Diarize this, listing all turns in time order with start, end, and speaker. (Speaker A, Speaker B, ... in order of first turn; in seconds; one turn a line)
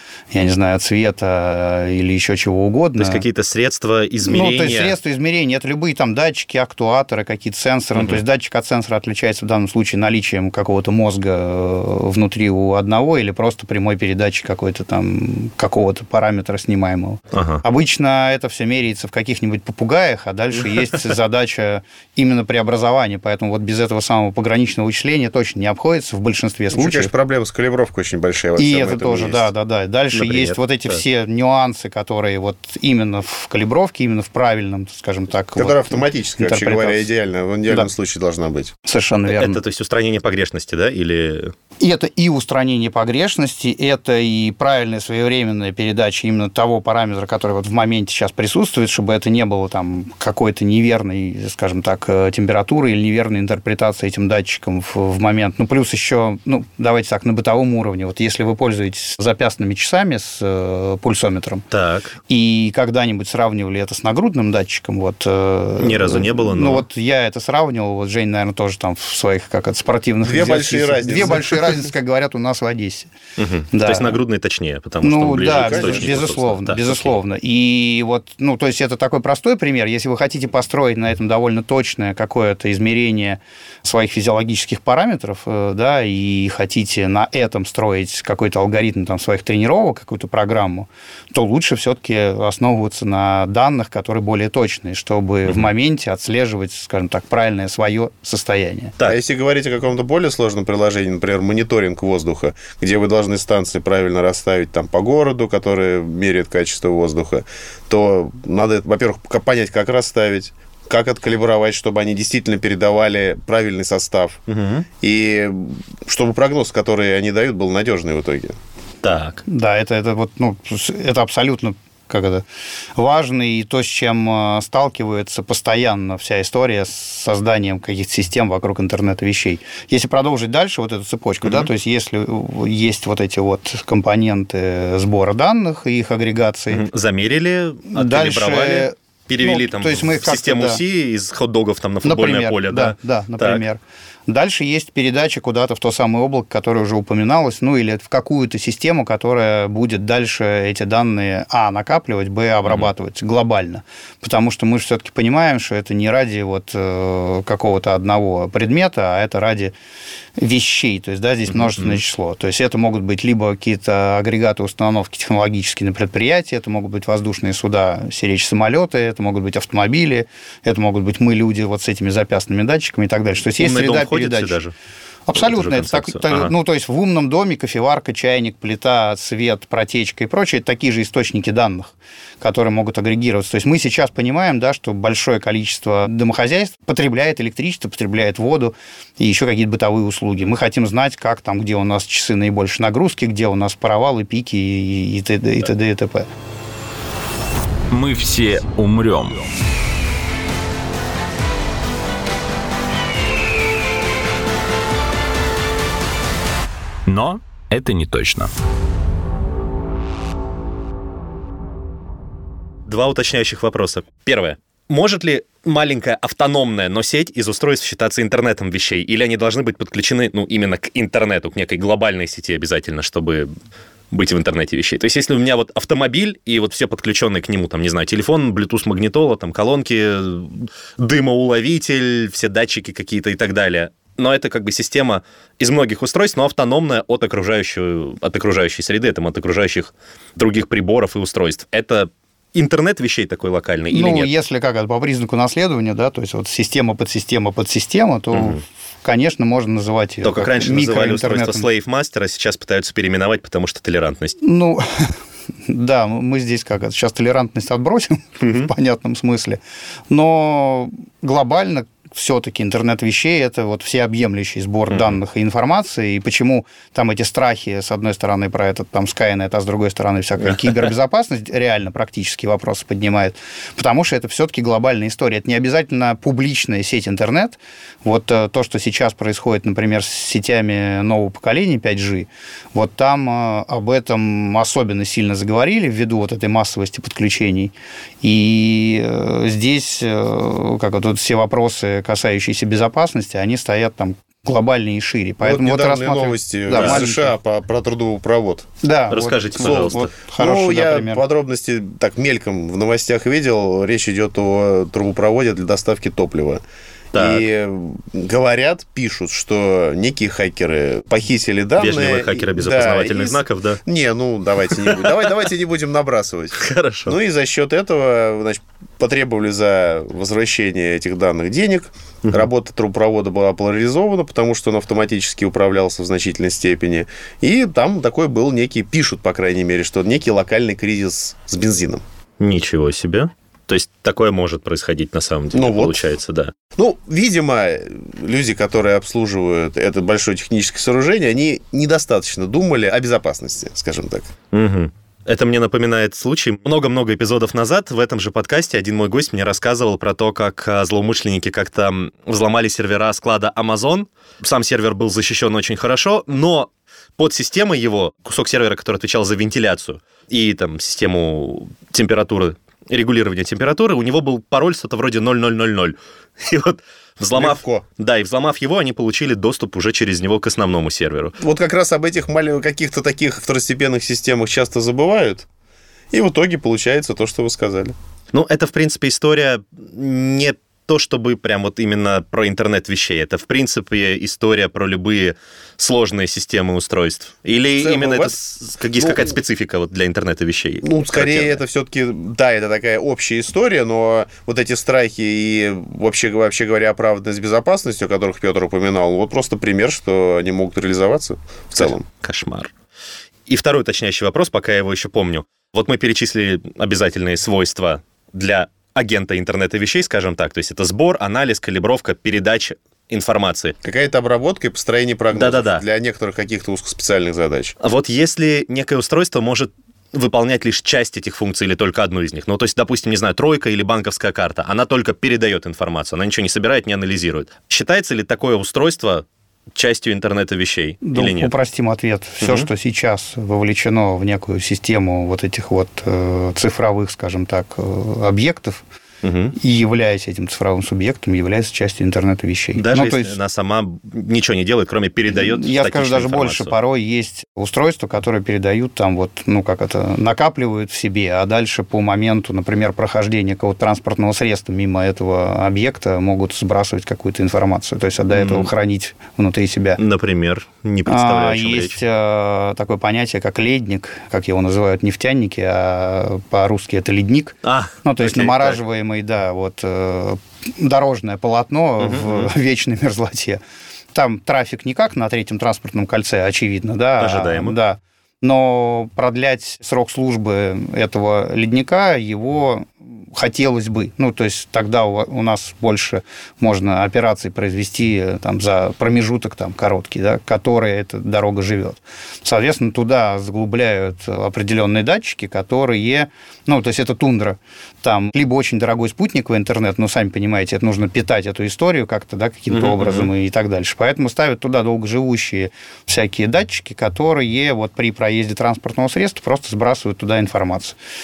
Speaker A: 0.3-3.2
Speaker B: 3.0-5.0
Speaker A: 4.2-27.1
Speaker B: 17.3-17.6
Speaker C: 26.7-29.5
Speaker A: 28.6-37.0
Speaker B: 30.1-31.0
Speaker C: 35.5-38.7
Speaker A: 38.8-39.6
Speaker B: 39.3-41.5
Speaker A: 41.8-61.6
Speaker B: 61.7-62.1
Speaker A: 62.3-73.1
Speaker B: 65.8-66.8
Speaker C: 70.2-71.8
Speaker B: 73.4-77.2
Speaker A: 73.7-74.2
Speaker A: 75.0-98.9
Speaker C: 75.4-76.3
Speaker C: 99.0-114.4
Speaker B: 114.5-114.8
Speaker C: 115.0-118.5
Speaker B: 119.0-119.4
Speaker A: 119.5-122.4
Speaker A: 123.0-136.8
Speaker B: 131.4-131.7
Speaker B: 136.7-143.6
Speaker A: 137.9-140.8
Speaker A: 142.0-159.7
Speaker A: 160.4-174.6
Speaker B: 161.5-162.0
Speaker B: 173.6-174.7
Speaker A: 175.3-196.3
Speaker B: 175.3-176.5
Speaker D: 197.9-199.5
Speaker D: 207.1-208.5
Speaker B: 212.8-223.5
Speaker B: 224.1-244.3
Speaker A: 243.9-251.7
Speaker B: 248.3-248.6
Speaker B: 250.2-254.4
Speaker A: 254.4-255.1
Speaker A: 255.7-297.3
Speaker B: 258.4-258.7
Speaker B: 264.9-265.1
Speaker C: 295.4-298.7
Speaker B: 296.7-297.0
Speaker A: 298.8-301.2
Speaker B: 299.1-300.1
Speaker C: 299.6-306.6
Speaker B: 307.1-307.4
Speaker C: 307.1-332.0
Speaker B: 311.8-313.8
Speaker B: 314.9-315.1
Speaker B: 316.6-317.1
Speaker B: 332.4-336.5
Speaker C: 335.5-336.0
Speaker C: 336.7-344.3
Speaker B: 344.5-371.4
Speaker C: 367.4-367.8
Speaker C: 371.4-375.5
Speaker C: 376.1-377.9
Speaker B: 378.3-391.6
Speaker C: 387.8-388.3
Speaker C: 388.9-389.3
Speaker C: 390.8-402.0
Speaker B: 401.8-402.7
Speaker B: 403.5-413.7
Speaker C: 413.8-417.7
Speaker B: 415.3-415.8
Speaker B: 417.8-431.5
Speaker A: 431.0-438.8
Speaker B: 432.4-432.7
Speaker B: 439.2-439.5
Speaker A: 439.6-443.4
Speaker B: 442.8-446.7
Speaker A: 445.3-460.0
Speaker B: 458.3-458.7
Speaker B: 460.0-461.9
Speaker A: 461.1-473.6
Speaker B: 467.6-468.8
Speaker B: 472.0-472.5
Speaker A: 474.1-511.0
Speaker B: 477.2-477.7
Speaker B: 502.7-503.3